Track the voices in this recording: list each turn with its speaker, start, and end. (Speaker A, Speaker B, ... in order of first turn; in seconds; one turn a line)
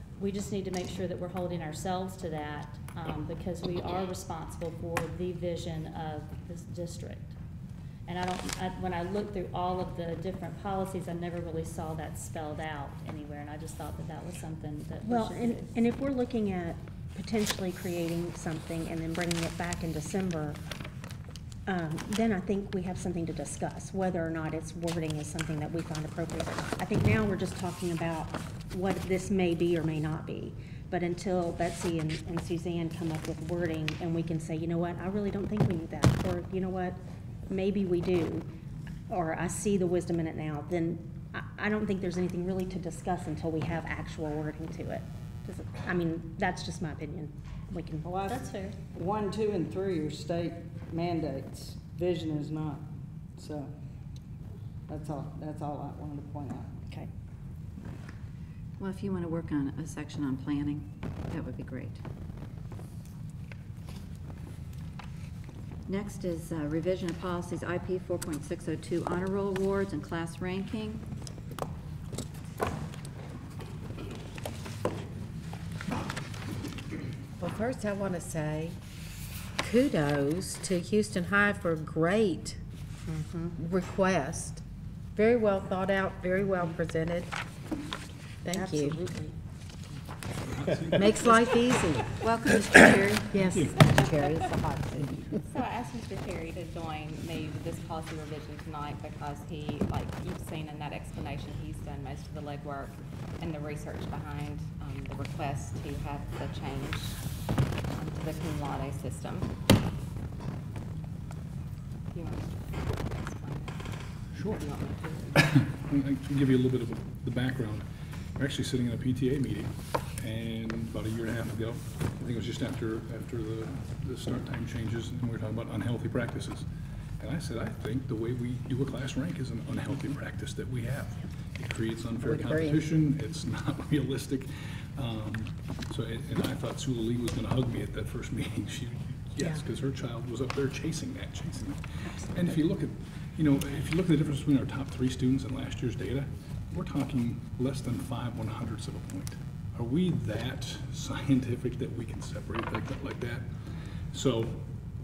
Speaker A: 0.2-7.3
Speaker A: 8.1-15.7
Speaker B: 15.0-20.6
Speaker B: 21.7-38.5
Speaker B: 39.1-48.5
Speaker C: 48.1-48.4
Speaker A: 48.3-48.8
Speaker C: 48.9-52.8
Speaker C: 53.4-53.7
Speaker C: 54.9-56.8
Speaker D: 58.8-62.0
Speaker D: 65.9-71.0
Speaker E: 77.4-78.8
Speaker E: 79.6-82.6
Speaker E: 83.6-84.6
Speaker E: 85.1-87.3
Speaker E: 88.4-89.1
Speaker B: 88.5-89.0
Speaker F: 90.4-91.6
Speaker E: 90.9-91.9
Speaker D: 92.2-93.5
Speaker E: 93.3-94.8
Speaker F: 93.4-93.8
Speaker G: 93.8-94.7
Speaker G: 95.4-107.2
Speaker G: 107.9-109.5
Speaker G: 112.1-113.8
Speaker F: 114.3-114.6
Speaker G: 114.3-115.6
Speaker F: 115.3-117.8
Speaker F: 118.4-126.7
Speaker F: 127.2-153.4
Speaker B: 142.1-142.5
Speaker F: 154.1-154.6